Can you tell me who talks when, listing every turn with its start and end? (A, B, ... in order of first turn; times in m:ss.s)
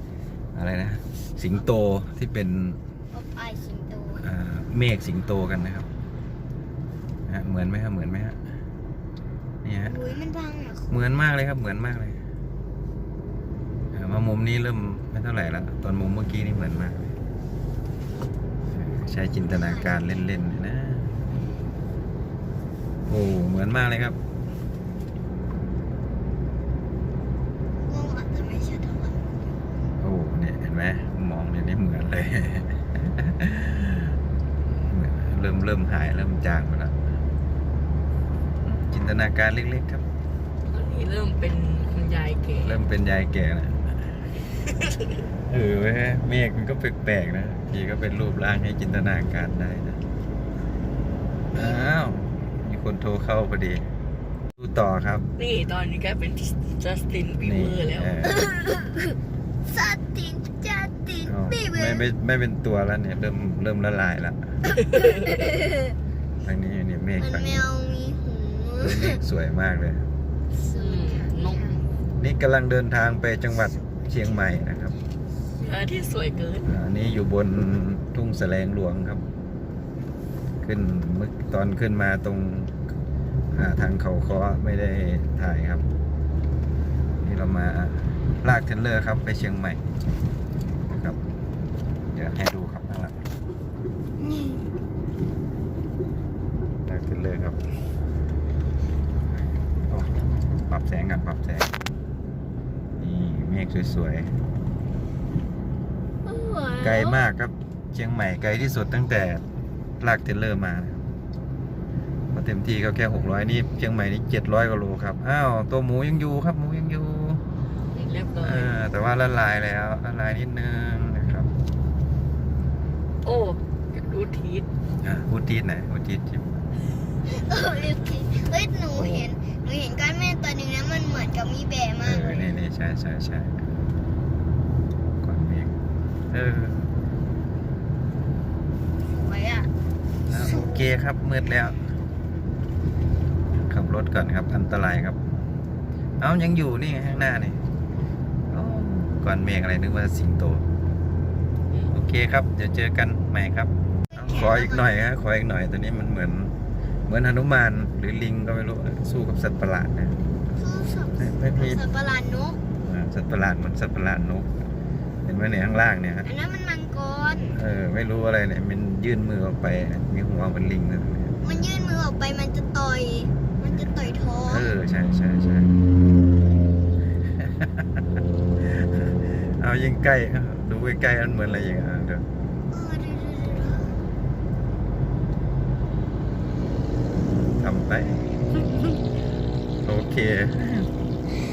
0:00.5-0:02.8 A
0:03.1-0:04.3 B
0:04.2-0:05.9 A
0:07.3-0:08.4 A
0:09.6-0:10.0 A
0:09.8-0:11.0 B
0:10.9-0:12.2 A
0:13.9-0:17.1 A
0:18.7-0:21.2 A
0:19.4-0:20.0 B
0:23.1-0:24.2 A
0:27.8-0:29.4 B
0:30.0-0:34.2 A
0:34.8-0:37.1 A
0:38.6-0:40.0 A
0:40.7-0:42.8 C
0:42.6-0:43.8 A
0:45.5-0:50.0 A
0:51.5-0:51.9 B
0:51.5-0:53.9 A
0:54.6-0:55.3 A
0:55.4-0:58.3 C
0:57.4-0:58.5 A
0:58.4-1:02.1 B
1:01.2-1:04.5 A
1:05.2-1:05.7 B
1:06.4-1:07.7 A
1:07.2-1:09.2 B
1:08.8-1:10.1 A
1:10.5-1:11.8 B
1:10.7-1:11.8 C
1:12.2-1:15.0 A
1:15.6-1:16.7 C
1:16.6-1:19.2 A
1:20.6-1:22.8 A
1:23.5-1:25.8 A
1:27.2-1:29.8 A
1:30.9-1:31.2 A
1:32.1-1:33.2 A
1:34.2-1:34.6 B
1:36.8-1:37.6 A
1:39.9-1:41.7 A
1:43.0-1:44.3 A
1:46.3-1:47.2 B
1:46.8-1:49.4 A
1:50.0-1:51.0 A
1:52.3-1:57.4 A
1:58.0-1:58.7 C
1:58.4-2:01.5 A
2:03.2-2:04.7 C
2:05.0-2:06.6 A
2:07.2-2:12.5 B
2:09.0-2:09.2 C
2:12.0-2:13.7 A
2:15.2-2:15.8 A
2:16.3-2:16.9 A
2:19.0-2:19.7 B
2:20.3-2:21.8 A
2:20.3-2:20.8 B
2:23.6-2:25.2 A
2:26.2-2:27.6 A
2:28.5-2:30.6 A
2:31.9-2:36.6 A
2:34.2-2:34.9 B
2:37.1-2:40.2 A
2:40.6-2:42.6 B
2:41.2-2:41.8 A
2:42.8-2:44.5 A
2:45.2-2:46.2 A
2:46.2-2:47.6 B
2:47.5-2:51.5 A
2:51.4-2:54.7 B
2:54.4-2:55.8 A
2:57.4-2:58.2 A
2:58.8-3:02.2 A
3:02.7-3:04.0 B
3:07.2-3:09.0 A
3:09.8-3:10.9 A